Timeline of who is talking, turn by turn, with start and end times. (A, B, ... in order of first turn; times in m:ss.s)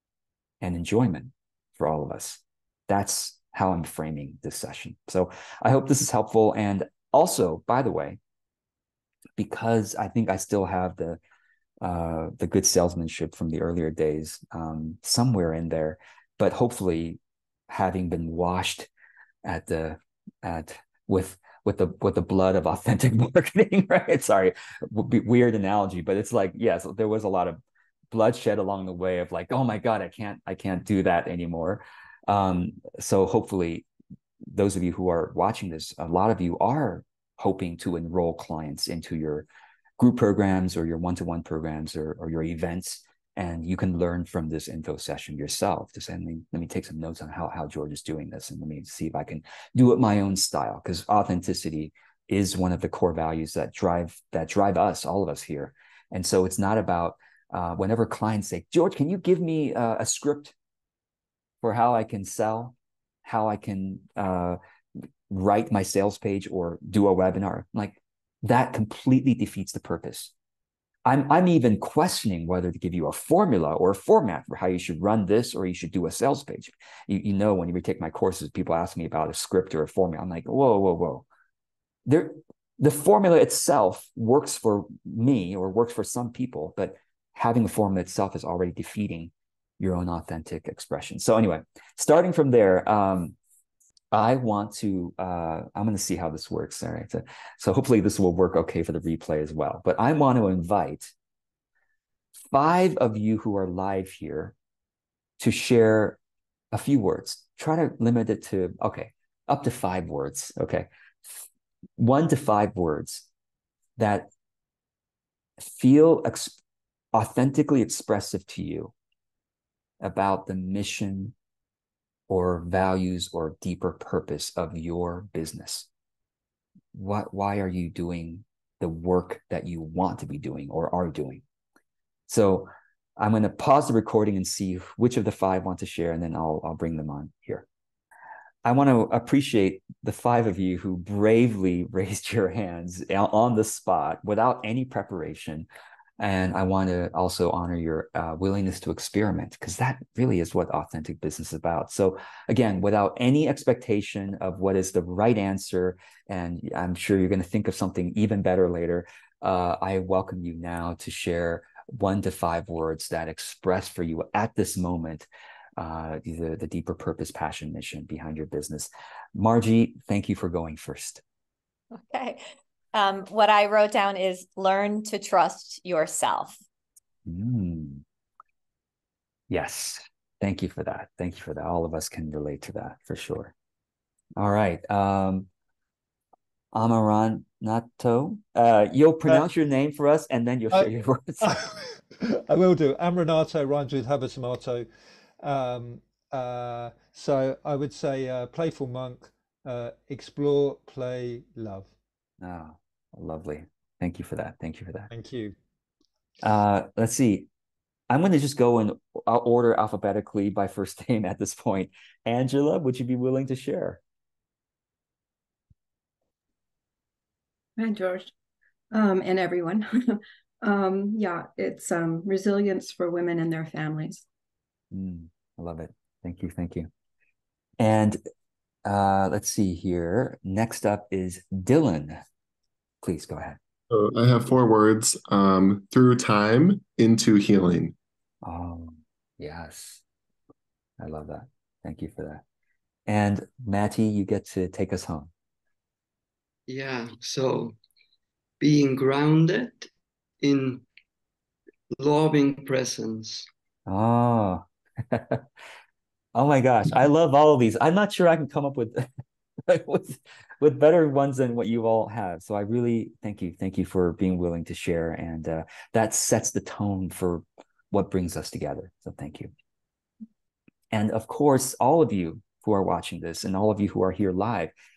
0:00.6-0:08.2 A
0:09.4-0:11.2 A
0:11.8-0:18.9 A
0:19.4-0:33.9 A
0:34.5-0:39.5 A
0:40.0-1:00.5 A
1:01.6-1:04.6 A
1:05.3-1:10.3 A
1:11.0-1:21.2 A
1:22.0-1:33.4 A
1:34.1-1:41.1 A
1:42.5-1:44.5 A
1:45.4-1:46.2 A
1:46.7-1:51.4 A
1:52.0-1:53.3 A
1:54.0-1:54.3 A
1:55.6-1:56.6 A
1:57.1-1:58.9 A
2:00.0-2:01.3 A
2:02.3-2:05.9 A
2:06.9-2:11.4 A
2:12.3-2:17.6 A
2:18.6-2:25.7 A
2:26.2-2:51.2 A
2:52.0-2:56.6 B
2:57.2-2:58.0 A
2:59.5-3:03.5 A
3:04.4-3:05.5 A
3:06.7-3:11.5 A
3:11.4-3:14.9 C
3:15.4-3:21.9 C
3:22.4-3:25.1 A
3:25.1-3:25.6 C
3:26.4-3:27.5 A
3:28.1-3:34.0 A
3:37.8-3:38.3 D
3:38.9-3:44.2 D
3:44.9-3:46.9 A
3:47.8-3:48.2 A
3:48.8-3:52.2 A
3:53.0-3:53.6 A
3:53.9-3:57.9 E
3:58.4-4:00.0 A
4:01.0-4:02.4 A
4:03.1-4:05.3 A
4:06.7-4:07.8 F
4:08.6-4:09.9 F
4:10.4-4:10.8 F
4:12.0-4:13.5 F
4:13.9-4:15.4 A
4:16.3-4:19.1 A
4:19.7-4:29.5 A
4:30.9-4:34.7 A